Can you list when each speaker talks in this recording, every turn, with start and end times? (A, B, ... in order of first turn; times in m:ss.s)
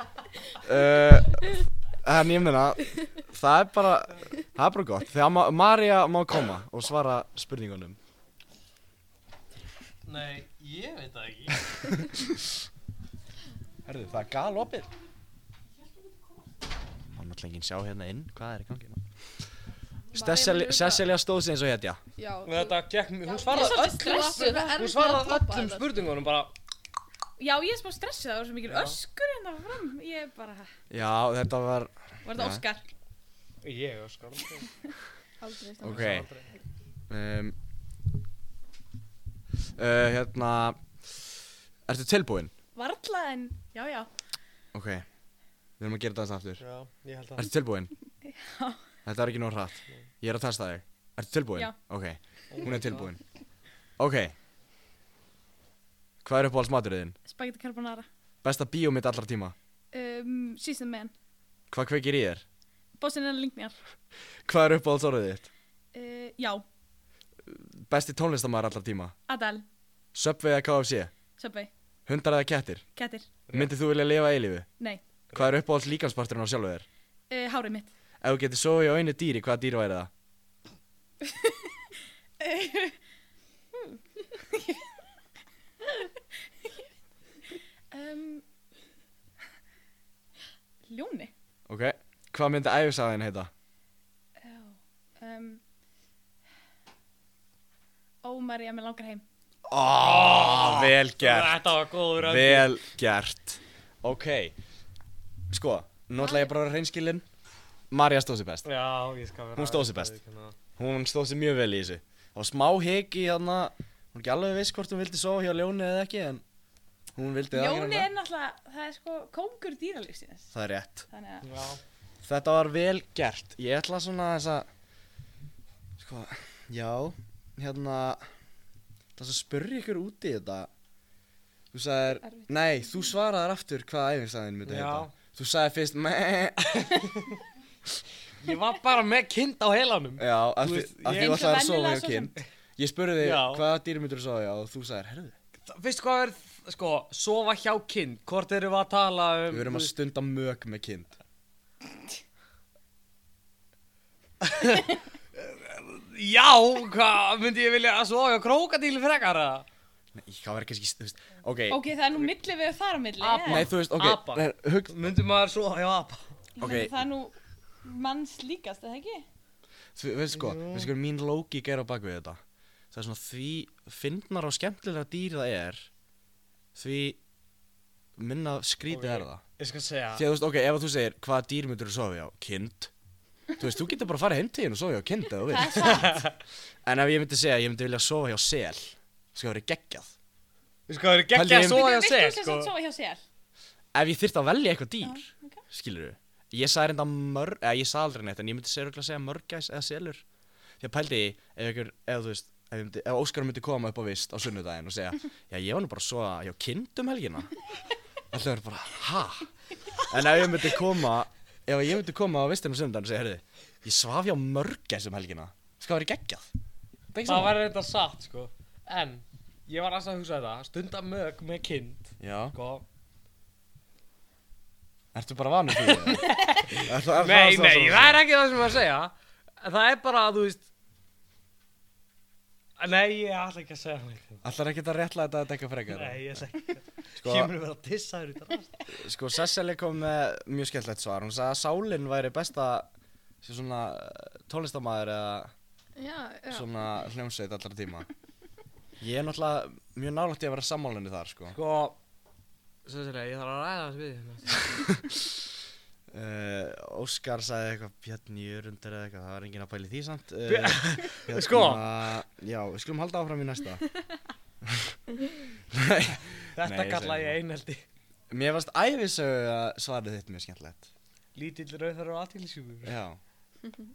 0:00.6-0:08.0 A
0:10.0-0:11.6 B
0:13.8-0:14.9 A
0:17.1-0:19.0 A
0:20.1-0:21.0 C
0:20.1-0:22.0 A
0:22.2-0:25.9 C
0:22.4-0:26.5 B
0:23.5-0:24.8 D
0:27.4-0:30.7 D
0:28.7-0:29.0 B
0:30.9-0:32.6 A
0:32.2-0:32.8 D
0:33.6-0:34.7 B
0:35.4-0:36.2 C
0:35.8-0:36.3 A
0:35.8-0:36.6 B
0:37.1-0:37.6 A
0:39.8-0:41.2 A
0:41.9-0:42.5 A
0:42.7-0:44.1 D
0:44.7-0:45.0 A
0:45.8-0:46.6 A
0:46.6-0:47.5 B
0:47.4-0:47.9 A
0:48.2-0:48.8 D
0:49.0-0:53.2 A
0:52.5-0:53.1 B
0:54.0-0:54.3 A
0:56.2-0:57.2 A
0:57.2-0:58.1 D
0:58.4-0:59.5 A
0:59.9-1:01.1 D
1:01.7-1:02.4 A
1:03.0-1:03.8 D
1:04.4-1:05.5 A
1:05.9-1:06.6 D
1:07.4-1:09.1 A
1:09.3-1:09.6 D
1:10.1-1:11.1 A
1:11.4-1:11.7 D
1:12.1-1:12.8 A
1:13.0-1:13.3 D
1:13.5-1:14.7 A
1:15.3-1:16.8 A
1:17.3-1:17.9 D
1:18.2-1:20.1 A
1:22.4-1:23.0 D
1:27.9-1:28.4 D
1:30.8-1:31.3 D
1:31.7-1:33.5 A
1:34.4-1:35.6 D
1:38.2-1:39.2 D
1:39.7-1:41.6 A
1:40.0-1:42.7 B
1:42.2-1:44.6 A
1:45.5-1:47.2 A
1:46.2-1:46.5 D
1:47.9-1:48.7 A
1:48.6-1:50.6 B
1:49.5-1:50.1 A
1:50.8-1:56.4 A
1:57.2-1:58.1 A
1:57.5-2:00.5 D
2:00.5-2:01.1 A
2:01.1-2:01.5 D
2:01.4-2:01.8 B
2:02.2-2:04.7 A
2:06.0-2:08.2 A
2:09.2-2:10.7 A
2:11.7-2:17.0 A
2:14.6-2:15.1 B
2:16.8-2:17.3 B
2:18.4-2:21.5 B
2:20.2-2:25.4 A
2:21.0-2:22.4 D
2:23.2-2:23.6 B
2:25.6-2:29.9 B
2:29.5-2:31.2 A
2:34.4-2:39.6 B
2:40.1-2:41.8 A
2:41.7-2:43.7 D
2:43.2-2:46.4 B
2:43.4-2:45.1 A
2:46.6-2:49.2 D
2:46.6-2:46.9 A
2:50.0-2:52.4 A
2:50.3-2:50.9 B
2:52.9-2:55.9 A
2:56.7-2:57.2 A
2:58.2-2:59.4 A
2:58.9-3:00.2 B
3:00.1-3:02.9 A
3:03.6-3:06.1 A
3:05.5-3:06.3 D
3:05.7-3:06.3 B
3:06.8-3:10.1 A
3:10.9-3:12.7 B
3:11.3-3:11.8 A
3:11.6-3:13.2 D
3:13.9-3:20.2 A
3:15.0-3:15.6 D
3:20.8-3:27.5 A
3:28.3-3:36.5 A
3:37.1-3:37.6 A
3:37.2-3:42.8 B
3:42.2-3:42.6 A
3:45.1-3:48.2 A
3:45.8-3:50.7 B
3:52.8-3:54.4 B
3:54.4-3:56.2 A
3:55.9-3:58.7 B
3:57.2-3:57.5 A
3:58.9-4:02.9 A
4:03.4-4:05.5 A
4:06.0-4:06.7 C
4:06.5-4:08.1 A
4:09.0-4:11.6 A
4:11.5-4:12.0 B
4:12.8-4:14.8 B
4:16.1-4:23.9 A
4:20.5-4:21.8 B
4:24.6-4:25.0 A
4:25.7-4:27.4 A
4:26.6-4:27.8 B
4:28.3-4:30.9 A
4:31.3-4:33.0 B
4:32.8-4:33.2 A